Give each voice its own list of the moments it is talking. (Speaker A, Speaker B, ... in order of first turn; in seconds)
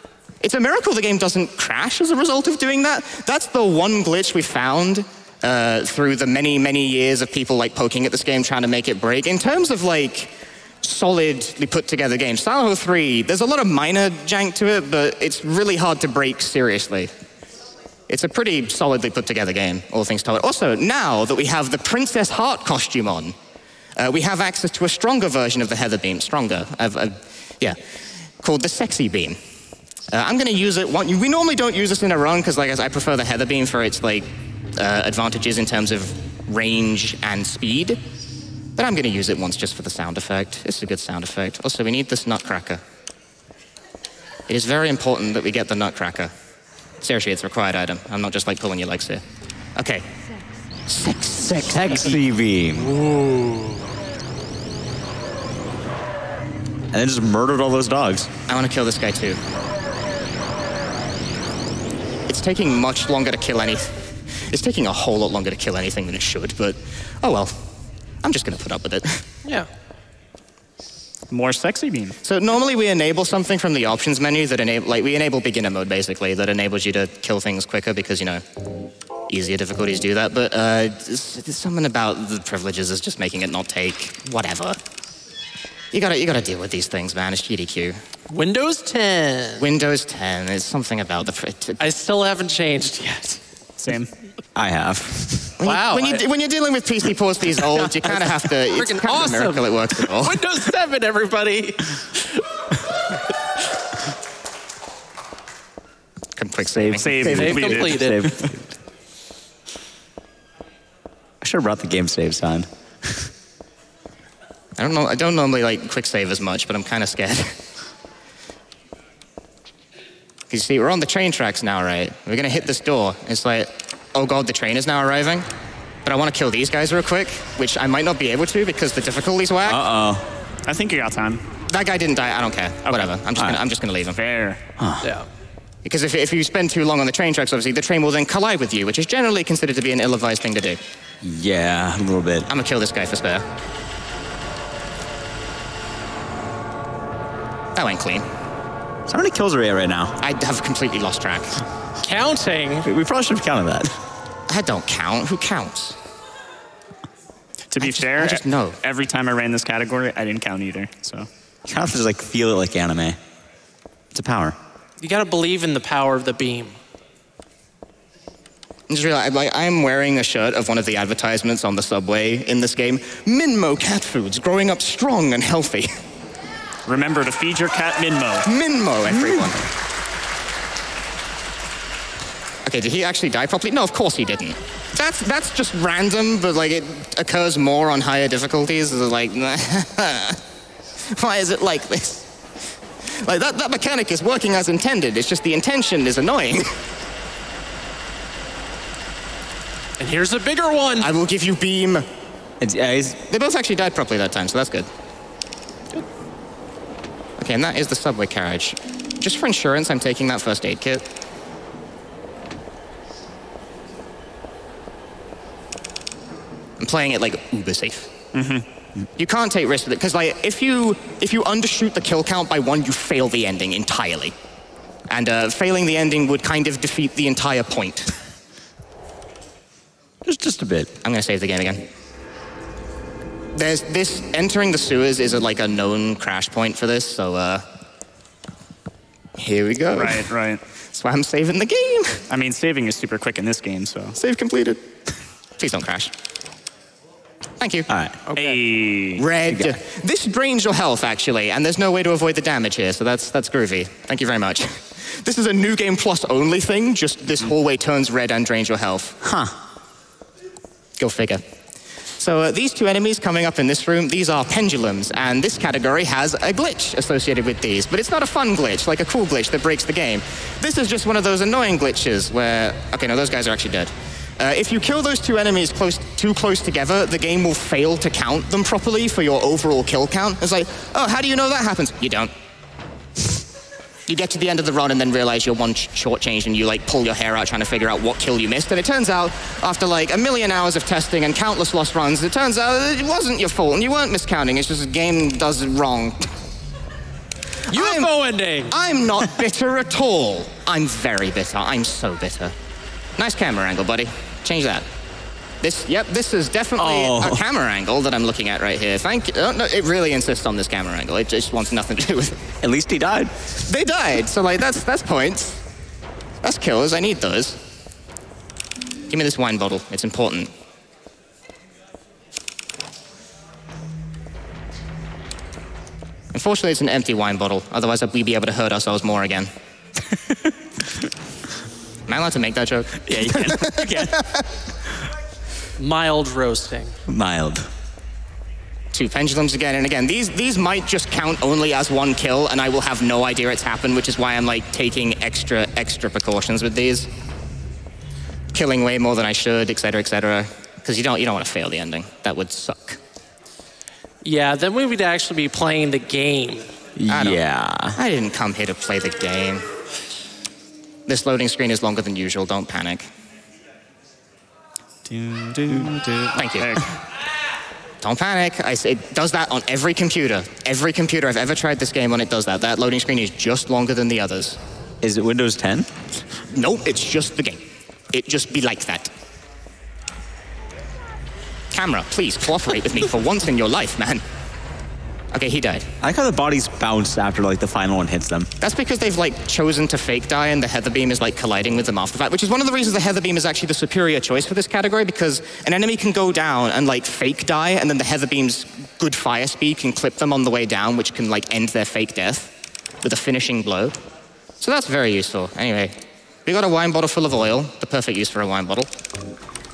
Speaker A: 0.4-17.1, 18.1-23.4, 24.0-27.8, 28.4-29.4, 30.1-38.0, 38.8-42.8, 44.5-46.3, 47.0-49.2, 49.8-50.1, 50.9-52.2, 58.5-59.4, 62.3-63.9, 64.5-67.6, 68.2-69.2, 72.2-78.4, 79.3-84.8, 85.9-88.0, 89.6-91.8, 95.6-100.4, 106.4-107.8, 114.8-117.6, 120.5-125.5, 126.0-129.8, 131.7-134.2, 135.8-140.8, 142.5-143.4, 147.8-148.3, 150.2-151.6, 154.5-156.0, 157.8-158.8, 168.9-175.9, 178.4-179.6, 182.7-190.4, 191.1-192.3, 193.2-196.7, 201.0-202.1, 203.3-204.9, 207.4-211.0, 216.8-218.1, 219.2-224.3, 225.1-228.1, 231.0-231.9, 233.5-237.6, 239.4-240.3, 240.9-242.2, 244.2-244.8, 245.6-246.1, 247.6-248.5, 249.2-259.2, 261.0-261.4, 262.2-282.3, 284.1-296.3, 297.7-302.5, 303.2-304.9, 305.6-312.4, 313.7-315.6, 316.4-317.6, 319.1-320.5, 326.3-329.5, 332.1-334.4, 338.9-347.1, 348.5-353.0, 357.1-357.4, 357.9-359.6, 361.1-363.1, 366.4-366.9, 368.0-374.6, 376.5-379.1, 381.7-384.2, 385.3-385.9, 388.6-404.0, 404.6-405.9, 406.5-408.9
Speaker B: 51.4-52.9, 56.9-58.3, 94.6-95.5, 107.0-108.6, 111.4-113.3, 129.7-130.2, 134.8-135.1, 141.2-142.5, 149.1-150.2, 152.8-153.9, 161.7-163.2, 164.1-164.6, 202.6-203.2, 230.2-230.9, 247.9-248.2, 259.2-259.5, 306.8-307.4, 312.6-313.3, 333.1-334.1, 337.1-337.7, 357.0-358.0, 365.6-366.3, 375.0-375.9, 386.0-388.5
Speaker C: 52.8-53.8, 88.3-89.7, 91.8-93.4, 95.6-96.2, 98.7-102.0, 107.3-108.3, 135.0-135.3, 152.0-152.9, 165.0-166.8, 200.0-201.1, 297.7-298.8, 335.8-337.0, 354.2-356.7
Speaker D: 71.3-72.2, 93.8-94.1, 106.8-108.5, 130.7-131.4, 132.9-133.1, 134.1-134.6, 157.7-161.3, 176.9-178.5, 218.3-218.7, 239.9-240.6, 242.3-244.2, 248.3-249.7, 365.1-366.9